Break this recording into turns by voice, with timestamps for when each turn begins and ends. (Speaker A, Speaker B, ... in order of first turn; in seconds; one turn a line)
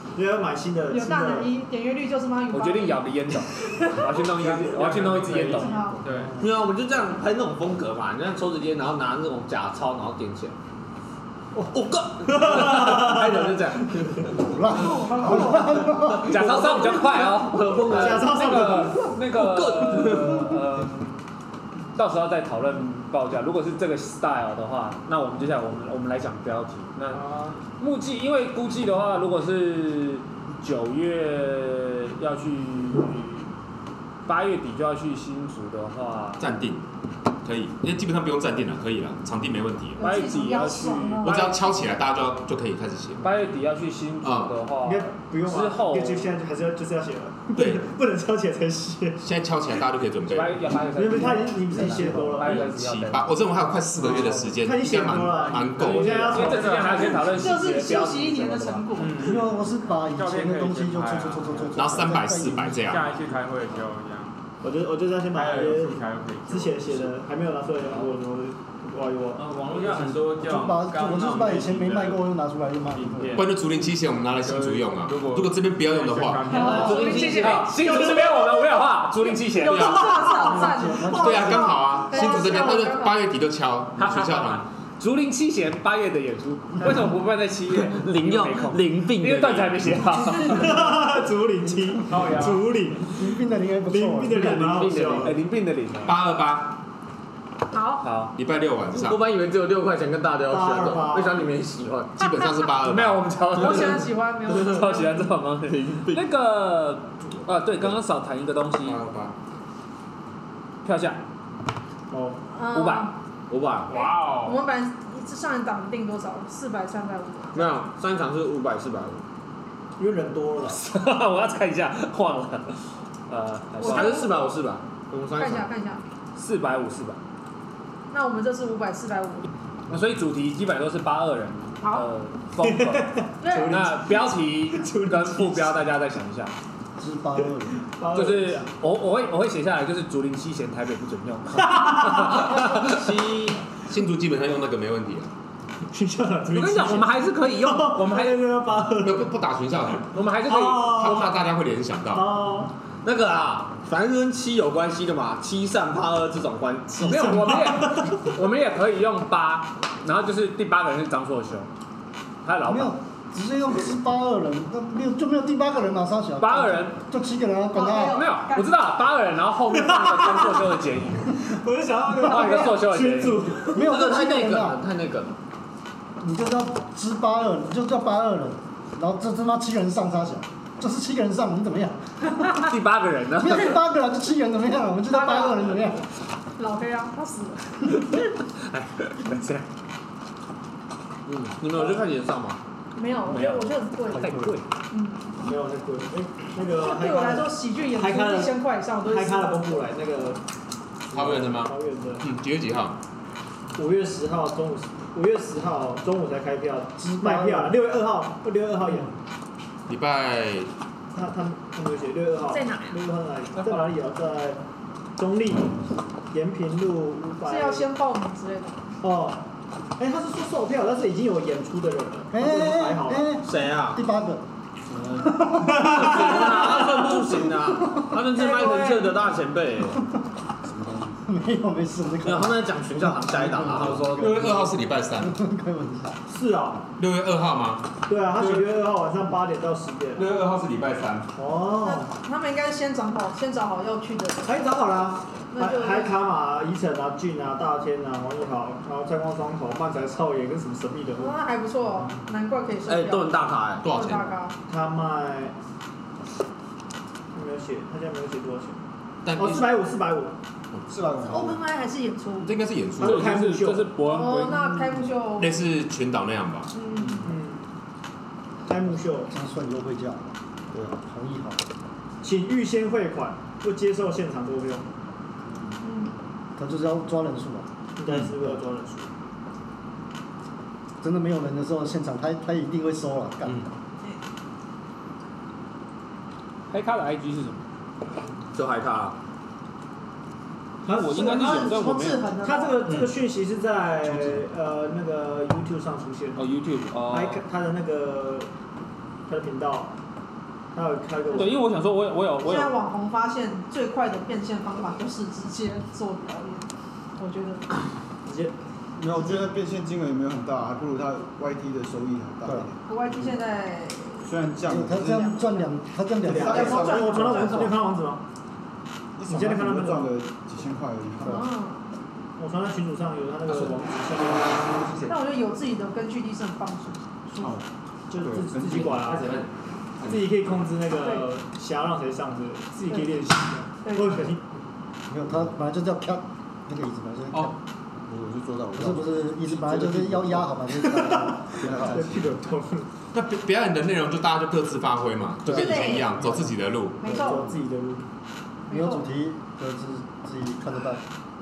Speaker A: 0.1-1.5
Speaker B: 0.9-4.1
Speaker C: 2.5-5.8
Speaker D: 4.5-6.4
Speaker B: 5.5-6.0
Speaker E: 6.0-6.5
Speaker F: 6.4-10.5
Speaker F: 11.7-14.7
Speaker A: 12.3-13.0
Speaker E: 14.4-16.3
Speaker F: 15.4-18.7
Speaker C: 16.2-21.2
Speaker A: 16.4-16.8
Speaker A: 17.7-19.2
Speaker F: 19.3-20.5
Speaker C: 21.9-27.2
Speaker D: 27.1-27.6
Speaker C: 27.8-33.5
Speaker C: 34.2-36.4
Speaker G: 36.4-36.8
Speaker G: 37.4-40.2
Speaker B: 40.0-41.5
Speaker C: 40.0-41.5
Speaker G: 41.2-43.4
Speaker C: 43.2-46.3
Speaker G: 44.2-44.6
Speaker A: 44.8-49.2
Speaker G: 47.5-47.9
Speaker G: 49.2-50.8
Speaker C: 50.3-53.4
Speaker A: 50.9-52.7
Speaker E: 51.7-52.3
Speaker G: 52.4-56.3
Speaker A: 54.0-57.0
Speaker D: 55.3-57.6
Speaker C: 56.1-58.9
Speaker B: 56.8-59.2
Speaker D: 58.9-62.1
Speaker E: 59.2-63.0
Speaker G: 61.7-63.1
Speaker D: 62.8-64.3
Speaker A: 64.6-69.4
Speaker D: 65.3-67.2
Speaker D: 67.9-68.1
Speaker D: 69.3-72.2
Speaker E: 70.3-73.5
Speaker D: 72.9-78.2
Speaker G: 73.3-76.6
Speaker B: 76.5-78.6
Speaker C: 76.6-80.2
Speaker F: 77.0-78.0
Speaker B: 79.2-83.2
Speaker G: 79.6-84.7
Speaker E: 80.2-81.9
Speaker C: 84.0-90.9
Speaker F: 88.0-89.8
Speaker A: 90.4-93.2
Speaker D: 92.1-92.8
Speaker E: 93.1-94.6
Speaker A: 93.9-95.4
Speaker F: 94.3-95.3
Speaker C: 95.2-96.2
Speaker G: 96.0-96.8
Speaker B: 97.7-98.0
Speaker C: 98.0-98.3
Speaker G: 98.3-99.2
Speaker F: 98.9-102.1
Speaker A: 100.5-101.4
Speaker G: 102.2-103.4
Speaker C: 102.8-109.0
Speaker B: 103.5-105.3
Speaker F: 105.6-106.2
Speaker G: 108.8-109.3
Speaker C: 110.8-111.2
Speaker A: 112.1-112.4
Speaker B: 112.5-113.1
Speaker C: 112.7-113.1
Speaker F: 113.5-113.9
Speaker D: 113.9-114.6
Speaker B: 113.9-117.7
Speaker F: 117.5-119.2
Speaker A: 120.0-120.8
Speaker C: 120.7-122.8
Speaker C: 123.3-124.2
Speaker B: 123.8-124.6
Speaker F: 123.8-125.7
Speaker B: 125.3-126.0
Speaker C: 126.3-127.2
Speaker B: 128.1-129.5
Speaker C: 129.9-133.1
Speaker B: 131.8-132.1
Speaker A: 132.6-135.8
Speaker B: 133.4-133.9
Speaker C: 133.7-136.5
Speaker E: 137.0-137.8
Speaker A: 137.9-138.7
Speaker C: 138.1-142.8
Speaker A: 141.7-141.9
Speaker F: 142.2-143.6
Speaker G: 143.8-145.3
Speaker A: 145.9-149.3
Speaker C: 146.5-148.4
Speaker G: 149.0-150.2
Speaker C: 150.1-151.0
Speaker A: 150.4-151.4
Speaker G: 150.8-152.4
Speaker A: 152.1-152.7
Speaker F: 153.0-157.5
Speaker C: 157.0-161.7
Speaker A: 157.0-158.2
Speaker C: 162.4-162.9
Speaker E: 162.6-168.3
Speaker C: 166.4-167.0
Speaker B: 167.7-168.8
Speaker C: 168.0-171.3
Speaker A: 169.8-170.6
Speaker A: 171.4-173.9
Speaker C: 172.2-173.5
Speaker E: 173.7-174.8
Speaker F: 173.8-175.3
Speaker E: 176.2-182.0
Speaker C: 182.5-183.8
Speaker E: 183.3-186.0
Speaker B: 185.1-186.0
Speaker B: 186.6-187.9
Speaker C: 188.6-189.6
Speaker F: 191.2-192.6
Speaker B: 192.9-194.3
Speaker C: 193.2-194.7
Speaker E: 194.1-194.6
Speaker B: 194.9-195.5
Speaker A: 195.4-200.4
Speaker B: 196.7-199.9
Speaker A: 201.1-202.2
Speaker G: 201.1-203.0
Speaker A: 203.7-209.2
Speaker E: 207.0-207.7
Speaker G: 209.9-210.7
Speaker A: 211.1-214.6
Speaker B: 212.5-213.0
Speaker A: 215.2-215.7
Speaker A: 216.3-217.9
Speaker B: 217.4-218.9
Speaker A: 219.0-219.4
Speaker A: 220.0-223.2
Speaker E: 222.3-224.4
Speaker F: 223.4-224.0
Speaker H: 224.9-226.1
Speaker E: 225.4-227.2
Speaker F: 225.7-230.0
Speaker B: 228.3-229.2
Speaker H: 230.6-231.2
Speaker E: 231.2-236.2
Speaker F: 232.2-234.2
Speaker G: 233.8-235.3
Speaker A: 236.3-236.8
Speaker G: 237.0-238.8
Speaker A: 238.1-240.4
Speaker G: 240.1-241.3
Speaker A: 241.3-242.1
Speaker B: 241.8-244.8
Speaker A: 244.4-251.4
Speaker B: 245.5-246.3
Speaker B: 251.2-254.5
Speaker F: 252.8-253.8
Speaker G: 253.8-254.3
Speaker A: 254.7-255.6
Speaker A: 257.3-260.4
Speaker G: 259.2-259.7
Speaker H: 260.9-261.6
Speaker B: 261.2-262.6
Speaker G: 262.4-263.4
Speaker A: 263.0-263.9
Speaker C: 263.0-265.0
Speaker B: 264.0-265.7
Speaker G: 265.4-266.7
Speaker B: 266.7-267.3
Speaker A: 267.2-267.6
Speaker A: 268.6-269.3
Speaker E: 269.2-270.3
Speaker H: 270.7-271.0
Speaker E: 271.0-271.6
Speaker A: 272.2-274.9
Speaker B: 275.8-276.1
Speaker E: 276.6-277.7
Speaker A: 278.0-279.1
Speaker E: 281.0-283.7
Speaker C: 286.7-287.6
Speaker F: 288.5-289.1
Speaker A: 290.8-291.8
Speaker C: 290.9-292.2
Speaker B: 291.2-293.0
Speaker A: 292.4-296.4
Speaker G: 292.9-293.1
Speaker C: 296.3-297.4
Speaker A: 297.1-298.5
Speaker A: 299.3-299.9
Speaker A: 300.7-301.6
Speaker C: 301.3-302.7
Speaker B: 302.4-307.6
Speaker A: 308.2-308.5
Speaker H: 308.9-313.4
Speaker B: 312.9-314.4
Speaker H: 314.2-315.4
Speaker E: 314.6-317.8
Speaker B: 314.9-315.7
Speaker A: 316.2-318.2
Speaker H: 316.2-317.4
Speaker B: 316.4-317.7
Speaker H: 319.2-321.4
Speaker A: 319.3-320.2
Speaker B: 321.2-321.8
Speaker A: 322.4-325.1
Speaker G: 323.5-323.8
Speaker B: 325.1-327.5
Speaker H: 327.4-327.6
Speaker A: 328.1-329.4
Speaker H: 328.1-329.0
Speaker G: 328.9-329.5
Speaker A: 330.0-334.4
Speaker B: 331.0-331.3
Speaker B: 333.8-334.3
Speaker E: 335.1-337.5
Speaker H: 338.1-342.4
Speaker E: 338.7-341.9
Speaker A: 341.6-342.9
Speaker G: 343.1-347.1
Speaker B: 345.4-346.4
Speaker E: 345.5-346.5
Speaker B: 347.0-347.4
Speaker A: 347.0-348.1
Speaker E: 347.2-347.5
Speaker B: 348.7-349.1
Speaker E: 348.7-351.0